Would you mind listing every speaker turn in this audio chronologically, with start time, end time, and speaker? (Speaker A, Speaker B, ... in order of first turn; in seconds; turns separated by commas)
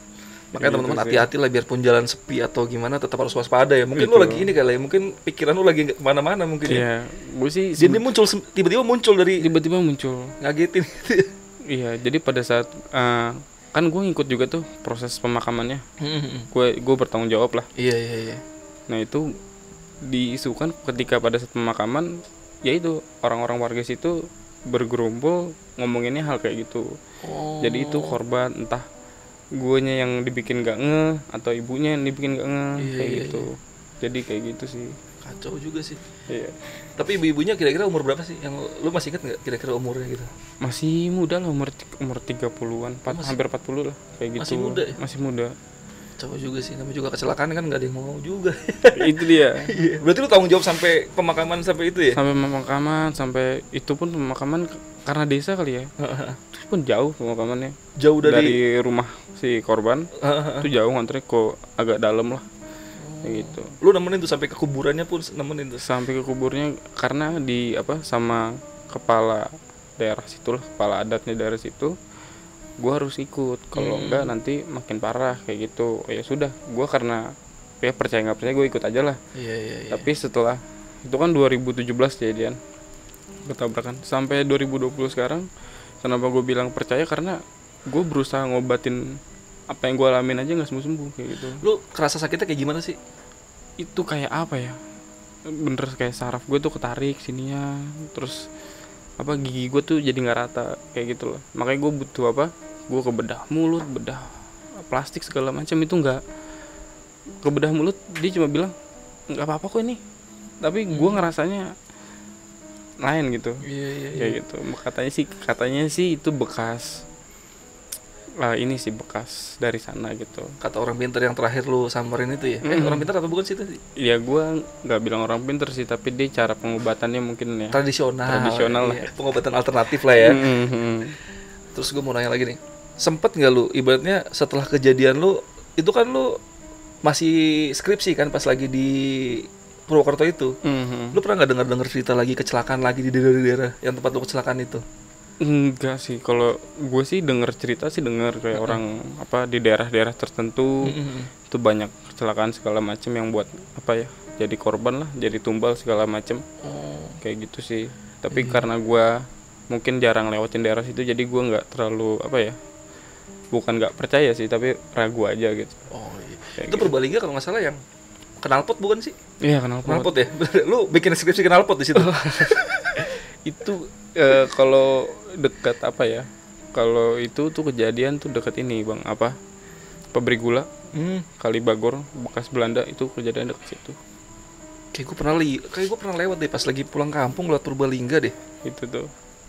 Speaker A: 0.5-6.8, Speaker B: 0.6-1.2, Speaker B: 3.9-4.5, Speaker B: 6.7-8.0, Speaker A: 7.8-9.4, Speaker B: 9.4-10.3, Speaker A: 10.4-11.3, Speaker B: 11.7-15.8, Speaker A: 16.0-16.5, Speaker B: 16.5-17.7, Speaker A: 17.8-18.4, Speaker B: 18.9-19.2, Speaker B: 20.1-22.1, Speaker B: 22.6-24.1, Speaker B: 24.7-26.8, Speaker A: 27.2-28.2, Speaker B: 27.6-28.8, Speaker B: 29.6-34.9, Speaker A: 32.8-33.5, Speaker A: 35.2-36.0, Speaker B: 36.3-36.9, Speaker A: 37.0-40.3, Speaker B: 40.6-45.5, Speaker A: 43.1-43.4, Speaker A: 44.4-45.0, Speaker A: 46.2-52.2, Speaker B: 48.9-49.7, Speaker B: 52.1-55.9, Speaker A: 56.0-56.4, Speaker B: 56.5-60.1, Speaker A: 58.0-58.6, Speaker A: 60.2-60.7, Speaker B: 60.6-62.5, Speaker A: 63.0-65.8, Speaker B: 63.2-63.7, Speaker B: 65.8-71.9, Speaker B: 72.8-77.2, Speaker A: 73.8-74.3, Speaker B: 77.8-79.2, Speaker A: 79.3-80.1, Speaker B: 79.9-82.6, Speaker B: 83.5-85.5, Speaker B: 86.0-89.0, Speaker B: 89.7-91.6, Speaker A: 91.6-93.0, Speaker B: 93.8-94.8, Speaker B: 95.5-98.5, Speaker B: 99.2-104.3, Speaker B: 104.8-106.2, Speaker B: 107.4-108.7, Speaker B: 109.3-110.0, Speaker B: 110.6-111.7, Speaker A: 110.9-111.3, Speaker B: 113.0-113.6, Speaker A: 113.6-114.4, Speaker B: 114.2-117.0, Speaker B: 118.4-120.5, Speaker A: 120.6-123.8, Speaker B: 122.6-123.0, Speaker B: 124.0-129.1, Speaker A: 127.7-130.5, Speaker B: 130.2-131.1, Speaker A: 131.7-136.4, Speaker A: 137.0-140.5, Speaker B: 140.6-141.2, Speaker A: 141.1-144.8, Speaker B: 145.4-150.9, Speaker A: 148.5-148.8, Speaker A: 150.8-151.3, Speaker B: 151.5-156.4, Speaker A: 156.6-157.2, Speaker B: 157.2-159.1, Speaker A: 158.3-158.6, Speaker B: 159.7-162.6, Speaker B: 163.5-165.8, Speaker A: 165.9-167.8, Speaker B: 166.6-166.9, Speaker A: 168.4-169.1, Speaker B: 169.4-170.1, Speaker A: 169.8-173.1, Speaker B: 171.9-179.3, Speaker B: 180.1-180.7, Speaker A: 180.9-181.2, Speaker B: 181.4-184.0, Speaker A: 184.9-188.3, Speaker B: 188.6-189.1